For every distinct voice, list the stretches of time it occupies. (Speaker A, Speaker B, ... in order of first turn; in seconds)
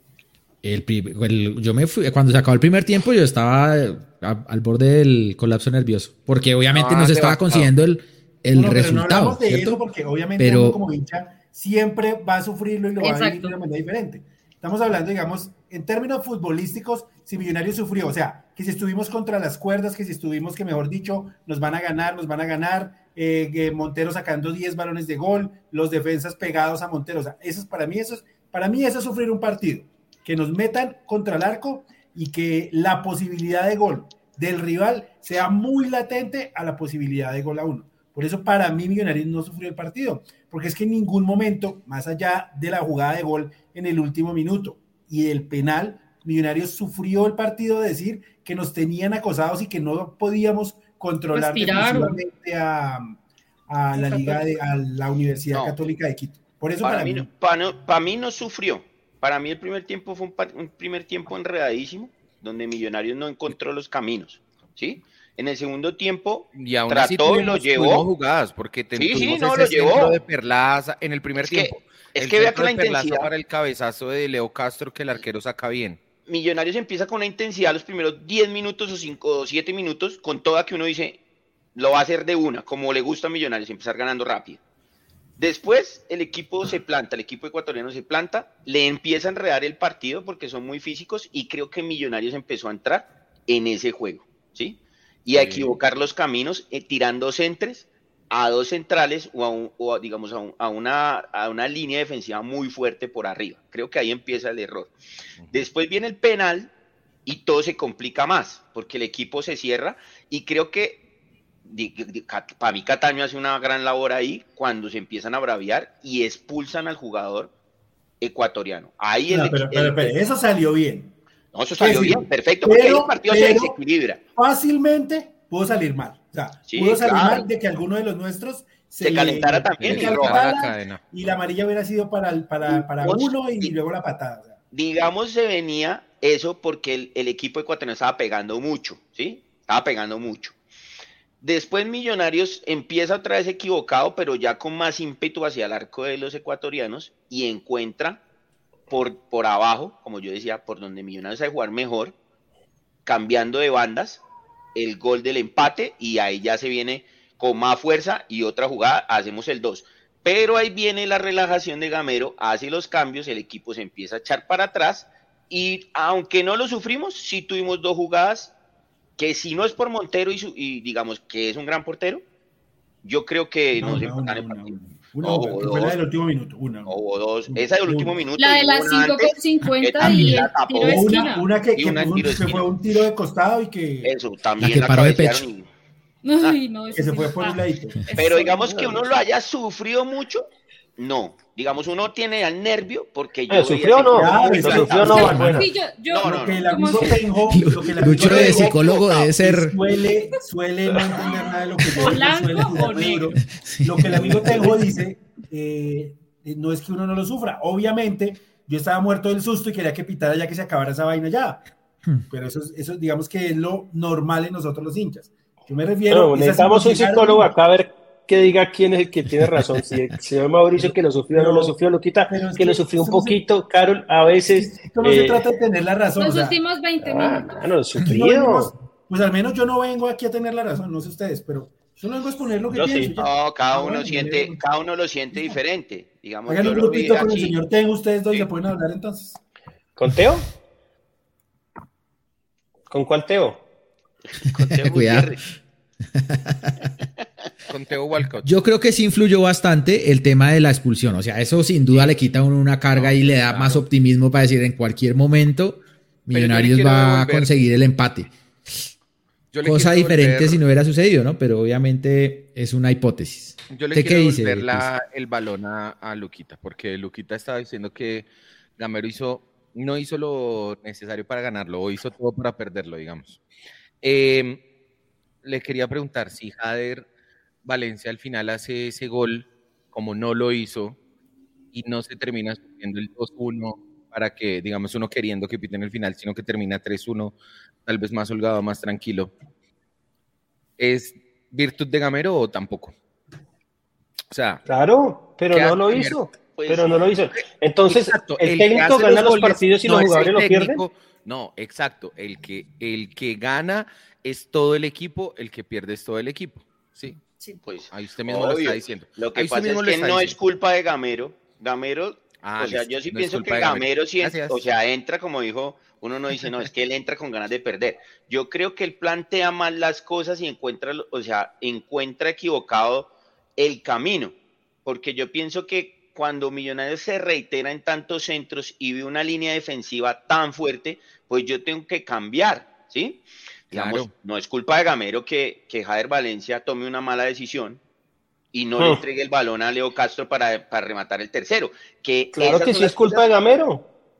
Speaker A: 0.6-9.8, 10.4-10.8, 184.6-185.5, 197.5-199.8, 203.6-204.7, 244.7-245.3, 246.2-246.9, 248.4-258.9, 259.6-264.9
Speaker B: 6.8-7.7, 66.5-76.0, 95.3-95.7, 129.8-131.0, 247.7-248.5, 252.9-253.8, 256.3-257.5, 259.5-260.6, 263.7-268.3, 268.8-273.4, 274.0-274.6, 275.4-277.1, 277.6-281.0, 281.7-287.3, 287.9-289.3, 290.8-292.9, 294.3-294.6, 295.5-296.3, 297.4-307.2, 307.9-310.4, 312.4-314.7, 333.7-334.1
Speaker C: 8.5-57.3, 119.3-121.2, 121.8-123.8, 124.4-134.6, 173.8-176.9, 177.5-178.2, 180.0-184.2, 186.9-188.0, 194.1-195.7, 196.2-198.8, 199.4-211.7, 212.3-217.5, 220.8-223.4, 224.5-226.6, 228.0-234.6, 236.5-239.4
Speaker D: 13.0-13.5, 51.3-52.2, 54.0-54.4, 178.4-181.5, 186.2-188.7, 195.0-197.2, 201.2-203.3, 226.2-227.6
Speaker E: 55.5-55.8, 56.8-68.0, 69.0-70.1, 71.4-73.3, 76.3-81.2, 81.8-84.6, 85.4-104.9, 105.5-106.7, 107.3-111.0, 111.7-117.5, 118.2-120.2, 121.5-124.2, 126.7-127.5, 129.0-130.5, 132.8-133.7, 134.7-140.6, 141.4-148.2, 148.9-152.2, 153.1-154.2, 154.8-168.5, 169.2-172.2, 173.0-175.9, 176.9-182.7, 184.0-185.7, 188.2-195.4, 196.1-197.2, 198.2-199.3, 233.2-237.6, 244.4-245.4, 296.6-297.0, 307.7-337.8, 338.5-343.3
Speaker F: 188.7-189.0, 193.5-195.7, 216.1-225.4, 227.0-228.7, 232.7-233.1, 240.0-240.5, 242.9-243.6, 294.7-300.8, 338.8-339.0, 342.3-343.9